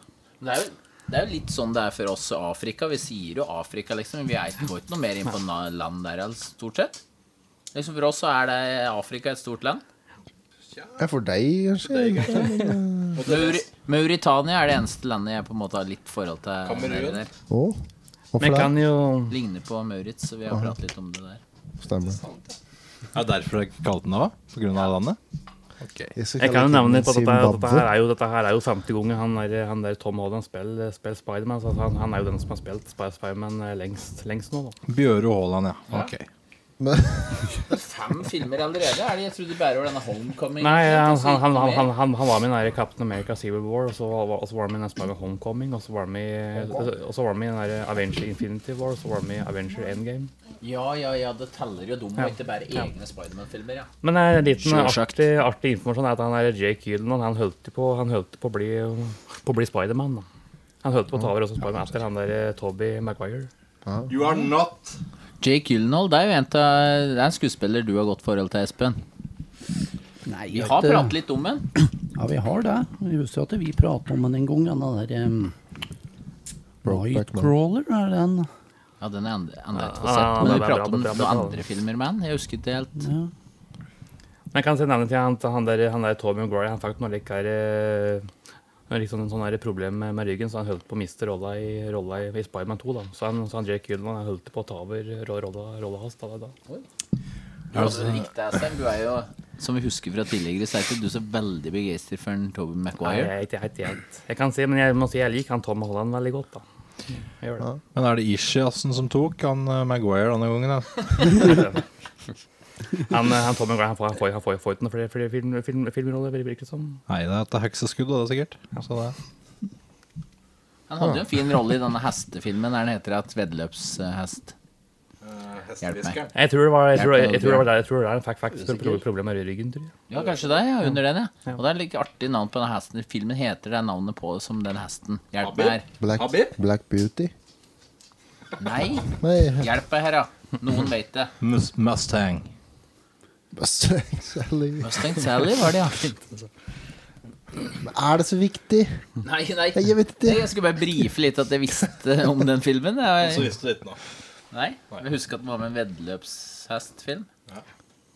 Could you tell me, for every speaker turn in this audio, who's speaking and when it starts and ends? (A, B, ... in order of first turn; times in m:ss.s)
0:00.4-0:07.0 A
0:07.7-0:09.8 A
0:10.7-0:11.0 B
0:11.0-0:13.2 C
0:11.8-0:13.6 B
0:13.2-0:17.3 A
0:16.6-0:17.2 B
0:17.5-0:17.8 C
0:18.3-0:18.7 C
0:18.4-0:19.4 D
0:19.3-0:21.4 A
0:21.8-0:22.2 C
0:22.2-0:22.5 B
0:23.1-0:25.2 B
0:25.8-0:26.1 B
0:26.2-0:27.9 C
0:26.4-0:34.8 D
0:34.9-0:36.3 B
0:36.8-0:37.3 C
0:37.7-0:41.9 A
0:40.6-0:50.3 D
0:46.6-0:46.8 C
0:50.6-0:53.9 A
0:52.2-0:52.8 D
0:54.0-1:00.2 D
0:54.6-0:55.2 A
1:00.8-1:03.5 D
1:04.1-1:05.0 B
1:05.4-1:09.0 A
1:10.2-1:11.2 E
1:10.5-1:11.7 A
1:11.7-1:15.5 E
1:16.8-1:17.5 C
1:16.8-1:18.5 E
1:19.0-1:23.0 A
1:19.7-1:21.6 D
1:23.0-1:23.3 E
1:24.5-1:28.3 D
1:28.9-1:36.5 D
1:37.7-1:43.3 A
1:37.7-1:38.1 B
1:43.0-1:47.7 D
1:47.9-1:51.5 B
1:51.4-1:51.8 D
1:53.1-1:57.0 D
1:57.1-1:59.1 B
2:00.9-2:04.5 A
2:05.2-2:06.3 B
2:05.8-2:06.2 A
2:06.3-2:09.9 D
2:06.9-2:07.7 A
2:10.1-2:15.8 A
2:10.1-2:10.5 B
2:15.4-2:16.5 B
2:16.0-2:17.3 C
2:18.6-2:21.3 A
2:19.2-2:19.7 C
2:21.4-2:22.5 B
2:23.5-2:24.9 C
2:24.8-2:26.0 A
2:26.1-2:26.4 D
2:27.8-2:29.0 C
2:29.2-2:33.5 A
2:29.7-2:30.5 C
2:33.2-2:34.0 B
2:34.5-2:37.3 A